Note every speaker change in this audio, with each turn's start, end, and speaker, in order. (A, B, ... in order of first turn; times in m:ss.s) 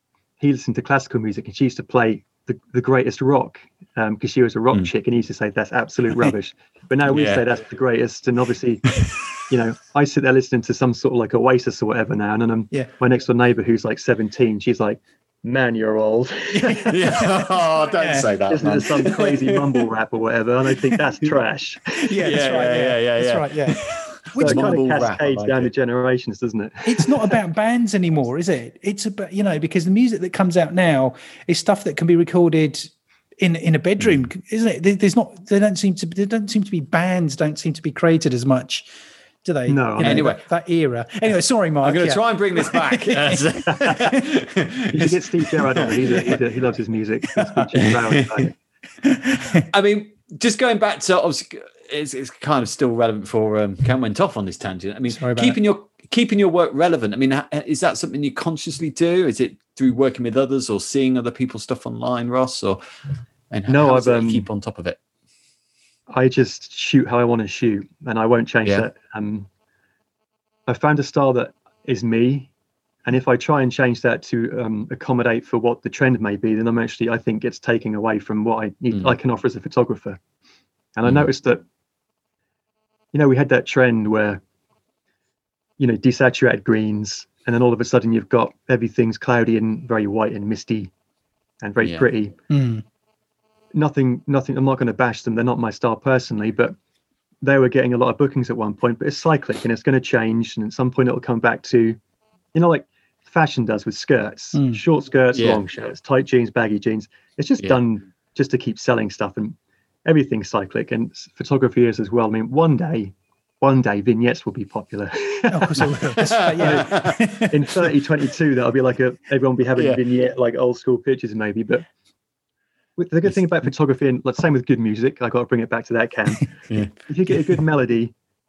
0:00.4-0:17.0 A
0:07.0-0:07.4 B
0:16.5-0:18.3 C
0:16.9-0:19.7 B
0:18.5-0:22.1 A
0:22.0-0:24.8 C
0:22.2-0:25.7 B
0:24.4-0:27.4 A
0:26.8-0:38.9 C
0:39.4-0:44.2 C
0:39.7-0:40.3 A
0:40.0-0:40.4 B
0:41.8-0:46.4 B
0:44.9-0:48.6 A
0:47.4-0:47.6 C
0:47.7-0:48.4 B
0:49.0-0:49.6 C
0:49.7-1:02.8 B
0:55.1-0:55.6 C
1:03.5-1:05.0 B
1:03.7-1:04.4 A
1:06.1-1:09.5 A
1:10.7-1:12.5 A
1:13.0-1:20.2 A
1:21.0-1:21.6 A
1:23.1-1:24.4 A
1:25.8-1:30.9 A
1:31.6-1:32.4 A
1:31.8-1:32.1 B
1:32.5-1:32.8 C
1:33.7-1:36.7 A
1:37.4-1:42.0 A
1:42.5-1:57.0 A
1:44.5-1:44.8 C
1:45.3-1:45.7 B
1:55.5-1:57.5 C
1:56.3-1:57.2 B
1:57.5-2:01.8 A
2:03.0-2:08.1 A